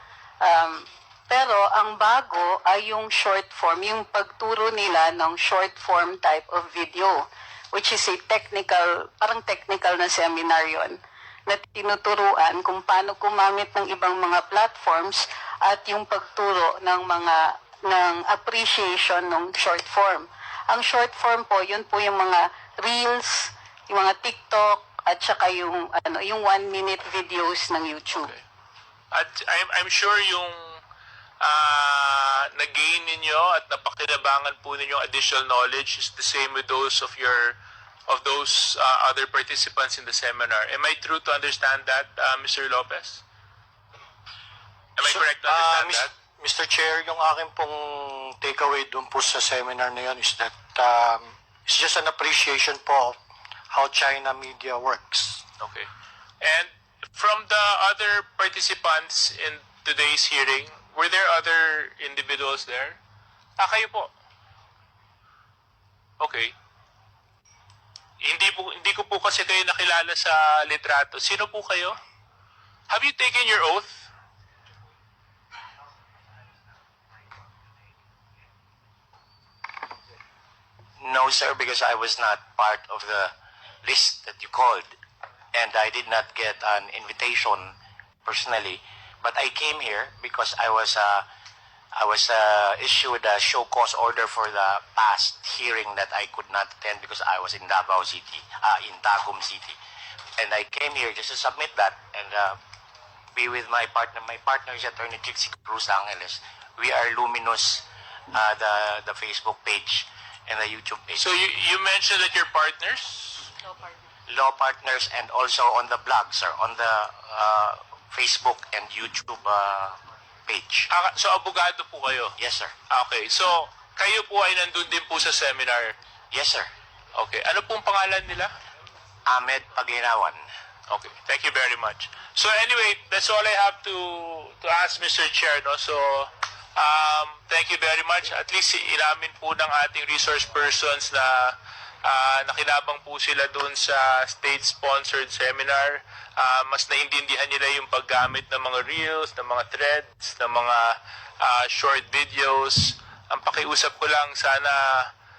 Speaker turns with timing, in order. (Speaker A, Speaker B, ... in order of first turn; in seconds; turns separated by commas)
Speaker A: 0.4-28.3, Speaker B: 28.1-28.4, Speaker B: 29.1-30.8, Speaker B: 31.4-43.2, Speaker B: 45.0-46.1, Speaker C: 45.0-53.2, Speaker C: 53.7-55.4, Speaker B: 55.6-55.9, Speaker B: 56.4-63.0, Speaker B: 63.6-64.1, Speaker B: 66.2-66.5, Speaker B: 68.2-72.0, Speaker B: 72.9-74.1, Speaker D: 81.0-85.0, Speaker D: 85.5-91.3, Speaker D: 92.0-99.8, Speaker D: 100.4-102.6, Speaker D: 103.3-111.2, Speaker B: 111.2-113.5, Speaker A: 113.6-114.1, Speaker D: 114.3-120.9, Speaker B: 120.9-122.3, Speaker D: 122.4-122.7, Speaker B: 122.9-125.9, Speaker D: 126.3-126.7, Speaker B: 127.1-128.5, Speaker D: 129.2-130.4, Speaker B: 130.9-155.1